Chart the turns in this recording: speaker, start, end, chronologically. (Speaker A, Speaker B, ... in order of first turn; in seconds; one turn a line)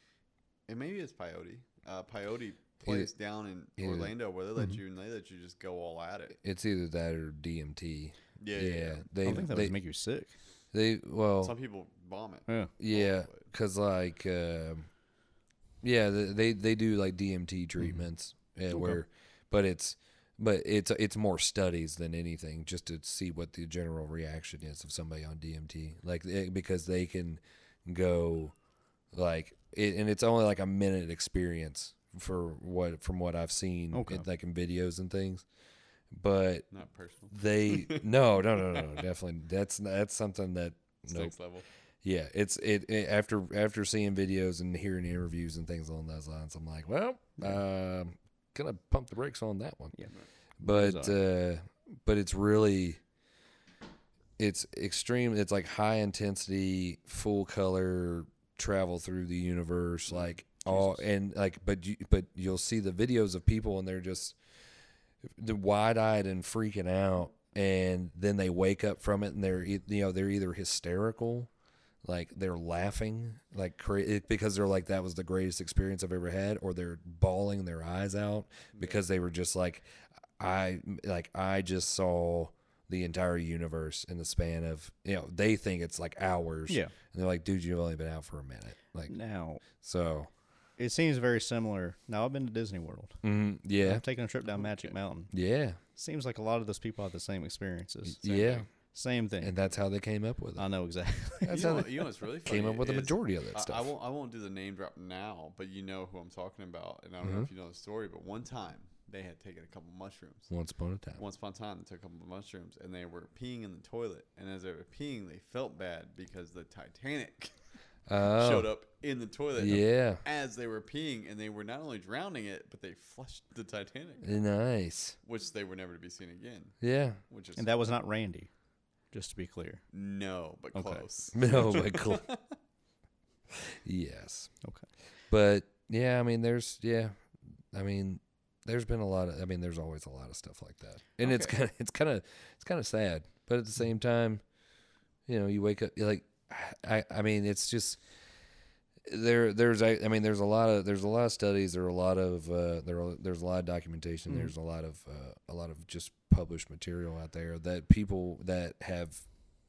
Speaker A: 0.7-6.4
Speaker B: 2.9-3.1
Speaker B: 3.8-4.1
Speaker B: 6.4-9.8
Speaker A: 8.4-9.1
Speaker C: 9.2-10.3
Speaker B: 10.7-11.6
Speaker A: 11.4-13.5
Speaker B: 12.8-14.9
Speaker B: 15.8-28.6
Speaker C: 18.7-19.0
Speaker B: 29.1-35.5
Speaker C: 33.9-34.3
Speaker B: 36.1-36.7
Speaker A: 36.7-39.0
Speaker B: 37.3-41.4
Speaker A: 41.1-41.7
Speaker B: 42.0-50.0
Speaker C: 49.9-51.2
Speaker B: 50.6-53.0
Speaker B: 54.4-64.4
Speaker C: 60.7-61.0
Speaker B: 65.3-71.5
Speaker B: 72.0-79.9
Speaker A: 78.7-79.0
Speaker B: 80.4-89.1
Speaker C: 86.7-86.9
Speaker C: 89.1-89.6
Speaker B: 89.7-90.3
Speaker C: 90.8-93.2
Speaker B: 93.2-94.0
Speaker C: 93.8-95.3
Speaker A: 94.5-94.9
Speaker B: 95.3-95.8
Speaker C: 96.0-98.2
Speaker B: 98.1-98.7
Speaker A: 98.2-98.7
Speaker C: 98.8-99.5
Speaker B: 99.4-100.7
Speaker C: 100.6-101.9
Speaker A: 101.5-110.5
Speaker B: 101.5-101.9
Speaker B: 102.4-103.9
Speaker B: 107.2-107.5
Speaker B: 110.5-111.2
Speaker A: 111.2-117.5
Speaker B: 118.1-118.7
Speaker A: 118.2-124.4
Speaker B: 119.6-120.2
Speaker B: 124.2-125.2
Speaker A: 125.2-127.7
Speaker B: 126.8-127.2
Speaker C: 127.6-128.5
Speaker C: 129.1-129.8
Speaker A: 129.9-132.6
Speaker C: 130.7-131.1
Speaker B: 131.3-132.3
Speaker B: 133.5-134.5
Speaker C: 134.6-134.9
Speaker B: 135.3-144.4
Speaker A: 141.2-141.6
Speaker B: 145.3-148.0
Speaker B: 149.1-159.2